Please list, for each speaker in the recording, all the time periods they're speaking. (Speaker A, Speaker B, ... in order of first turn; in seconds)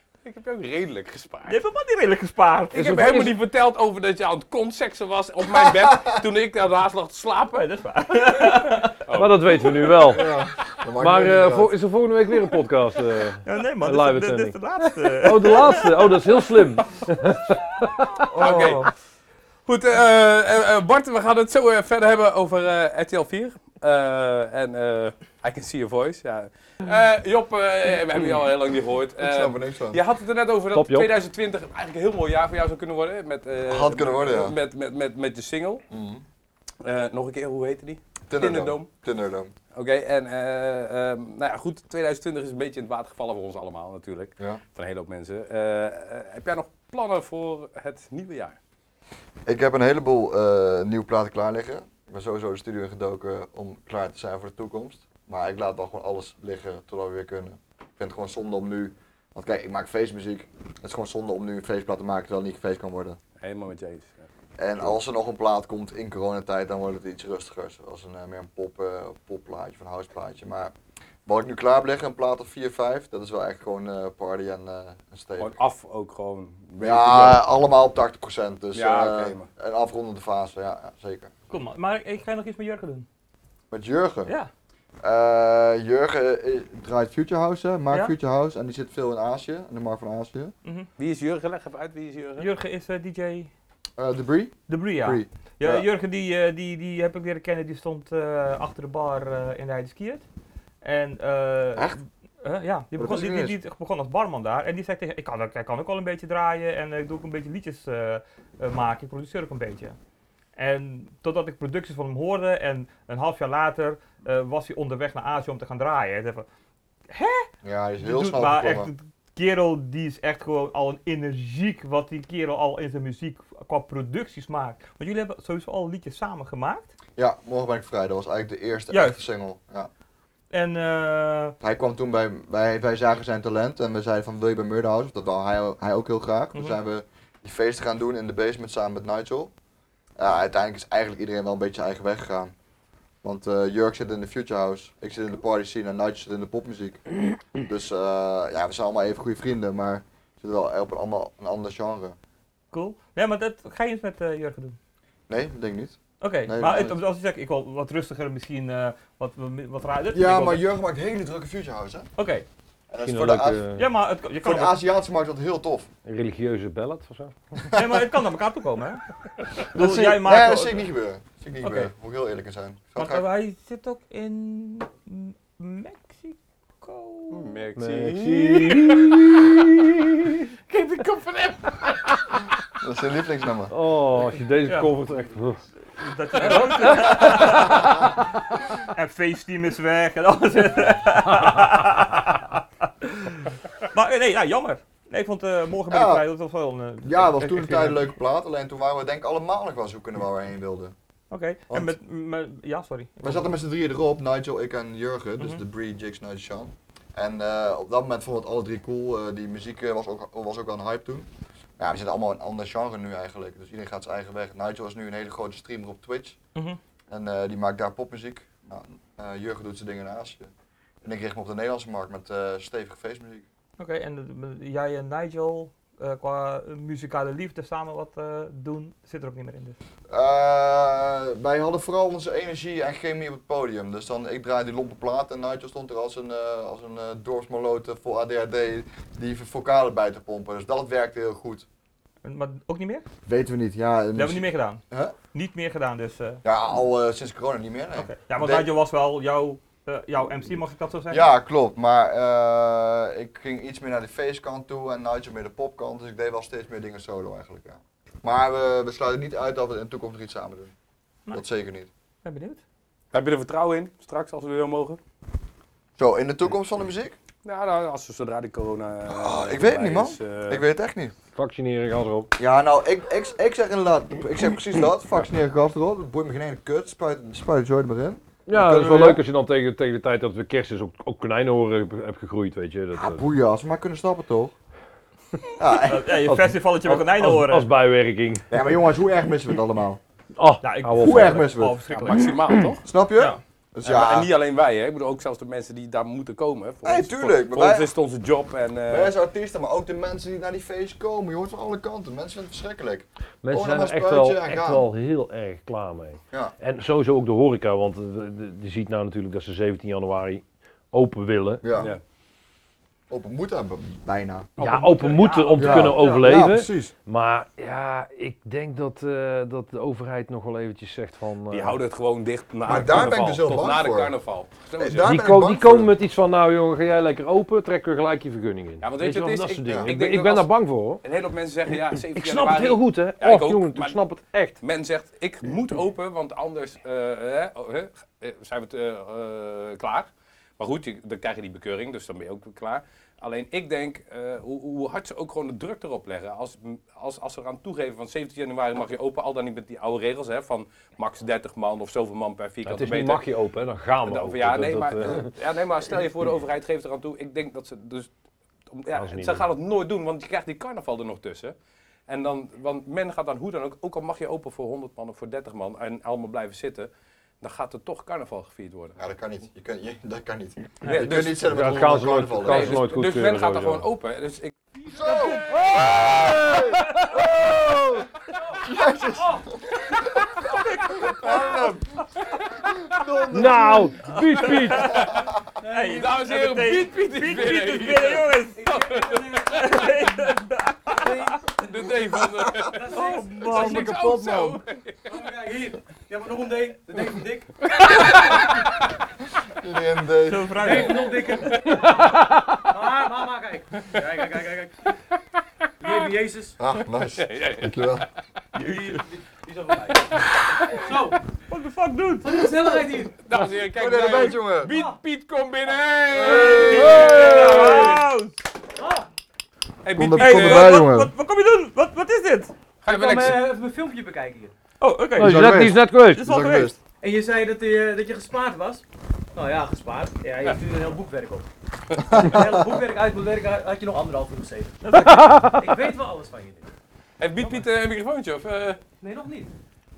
Speaker A: 0.2-1.6, 2.7-7.6, 9.1-10.3, 18.3-18.8, 19.6-35.8, 36.8-38.9, 39.7-48.6, 63.4-64.3, 75.4-77.4, 78.7-79.5, 91.0-92.5, 177.3-179.5, 180.7-182.1, 186.5-187.2, 263.1-265.0, 267.4-270.6, 291.9-292.8, 293.8-299.1, 321.5-325.1, 328.8-330.5, 331.0-334.0, 334.6-353.2, 354.0-358.1, 358.7-361.5, 362.1-366.9, 367.4-368.9, 370.8-371.5, 372.4-374.5, 385.9-389.8, 391.6-395.1, 397.7-398.4, 407.1-408.0, 409.5-410.7, 413.2-418.0, 419.8-420.8, 422.8-423.5, 437.2-438.8
Speaker B: 1.5-3.3, 7.5-9.0, 13.4-16.1, 18.3-18.9, 81.5-83.0, 92.4-93.5, 94.7-100.2, 100.8-110.0, 110.5-116.5, 117.1-117.5, 118.0-126.9, 128.9-129.2, 130.5-131.6, 152.7-154.8, 156.2-160.6, 162.2-162.4, 163.8-164.8, 167.7-169.0, 169.7-170.8, 171.6-171.9, 172.9-177.5, 184.7-184.9, 185.9-188.1, 188.9-198.0, 201.3-203.5, 223.8-229.8, 242.2-243.1, 244.1-244.8, 245.3-246.4, 247.9-251.3, 262.2-262.6, 285.9-287.7, 290.6-292.3, 314.6-316.3, 380.5-381.5, 384.3-385.1, 385.6-388.6, 389.4-391.3, 392.9-394.0, 400.2-401.0, 408.5-409.0, 411.5-412.4, 416.3-418.4, 420.2-422.5, 424.8-425.6, 426.1-426.7, 434.8-435.5
Speaker C: 9.1-10.3, 11.0-18.2, 30.7-31.1, 163.0-163.9, 166.1-167.3, 177.8-180.5, 183.7-185.6, 186.5-187.7, 271.3-272.3, 278.5-283.2, 286.2-288.5, 290.4-291.6, 303.4-311.6, 314.6-321.8, 325.0-331.0, 332.1-334.6, 352.6-355.3, 358.9-359.5, 371.5-373.9, 375.8-376.6, 383.3-385.0, 416.9-417.6, 425.1-426.3, 435.1-435.5
Speaker D: 10.1-11.7, 29.2-30.0, 33.7-34.5, 35.9-36.2, 38.3-39.5, 49.5-63.2, 64.6-70.7, 71.2-75.5, 76.8-81.3, 83.7-84.3, 85.0-90.5, 94.0-95.9, 103.0-103.5, 117.6-118.9, 127.2-129.9, 131.6-139.5, 140.2-142.5, 143.2-152.2, 155.3-157.0, 160.1-162.1, 162.9-163.6, 164.4-165.9, 169.7-173.3, 182.8-183.7, 195.9-196.2, 197.0-200.9, 201.7-201.9, 203.2-216.4, 217.1-220.5, 221.0-223.4, 230.1-241.7, 243.2-245.1, 246.4-248.7, 251.1-260.7, 261.3-261.9, 266.0-267.1, 269.1-271.1, 272.4-279.2, 282.9-284.5, 285.6-286.2, 288.5-290.0, 290.9-291.8, 292.8-294.3, 296.8-297.9, 298.9-304.9, 311.6-311.9, 313.1-314.5, 315.6-316.9, 322.6-324.1, 324.8-325.9, 329.6-329.9, 369.0-372.8, 374.9-375.4, 376.0-378.0, 378.6-380.4, 380.9-381.9, 382.6-384.1, 399.6-400.8, 406.6-408.1, 413.7-414.7, 419.9-421.1, 425.2-426.8
Speaker E: 385.6-386.1, 388.6-389.6, 390.9-391.6, 392.6-398.4, 400.5-404.7, 405.8-406.6, 410.7-411.2, 412.2-413.2, 414.7-415.0, 416.9-417.9, 418.8-419.1, 422.9-424.5, 427.0-431.5, 432.1-434.9, 435.5-436.7, 439.0-439.5